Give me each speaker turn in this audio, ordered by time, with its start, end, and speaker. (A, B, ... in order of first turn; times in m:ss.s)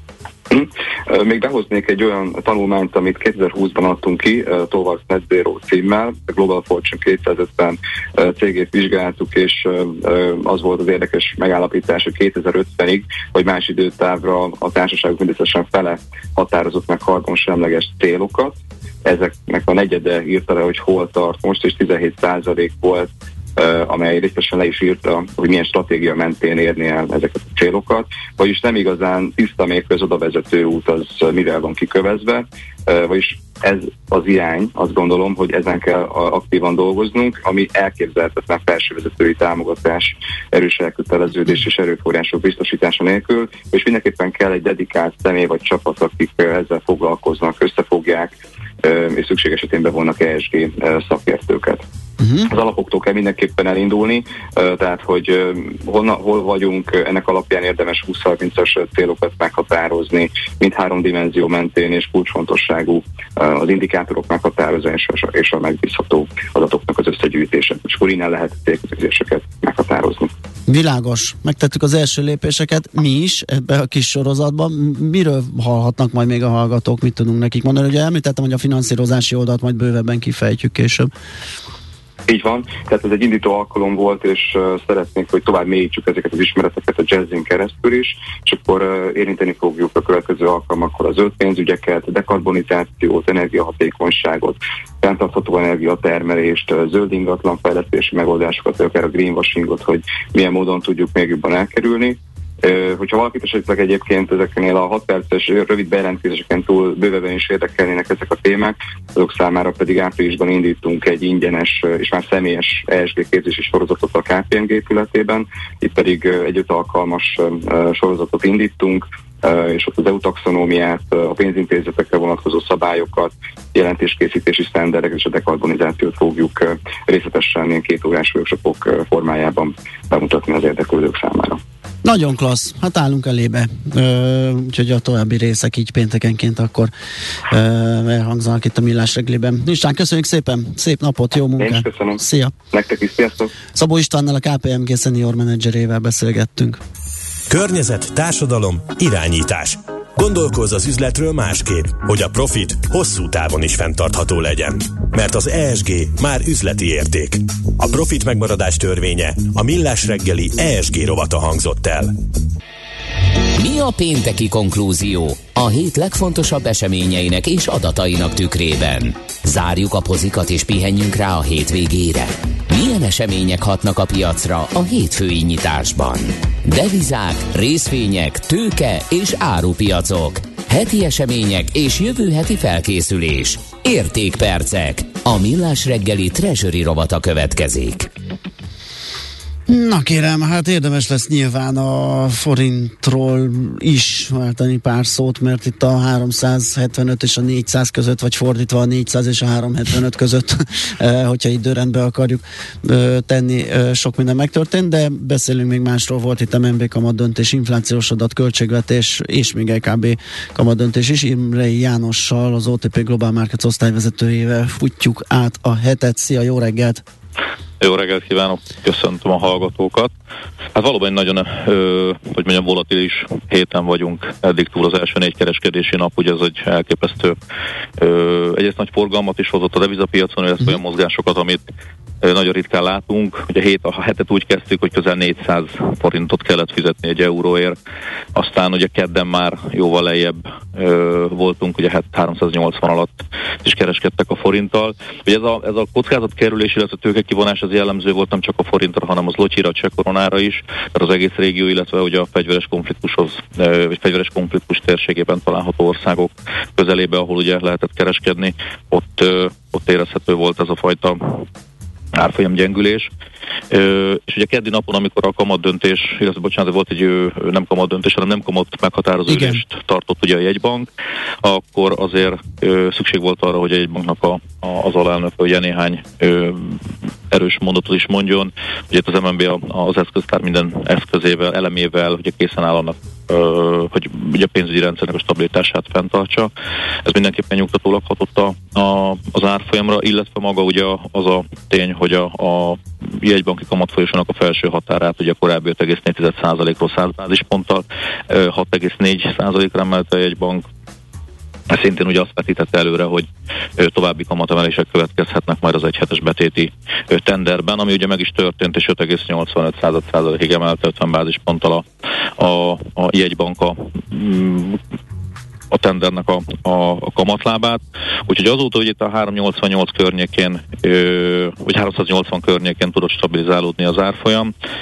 0:00.5-0:51.8 A
0:52.2-0:52.5 B
0:52.5-1:10.3 A
1:10.7-1:21.1 B
1:22.3-2:11.6 A
2:12.0-2:16.9 B
2:17.5-2:22.5 B
2:21.6-2:23.5 A
2:23.7-2:26.8 B
2:27.5-2:42.2 C
2:43.6-3:08.1 D
3:09.7-3:37.0 B
3:37.8-3:40.1 E
3:40.7-3:47.4 E
3:48.0-3:51.6 E
3:52.2-3:57.8 E
3:58.3-4:21.4 E
4:22.1-4:23.1 E
4:23.7-4:30.9 E
4:29.3-4:29.6 B
4:31.4-4:46.5 E
4:47.0-5:00.6 E
5:01.7-5:03.3 E
5:03.8-5:11.8 E
5:12.4-5:14.8 E
5:15.7-5:24.5 E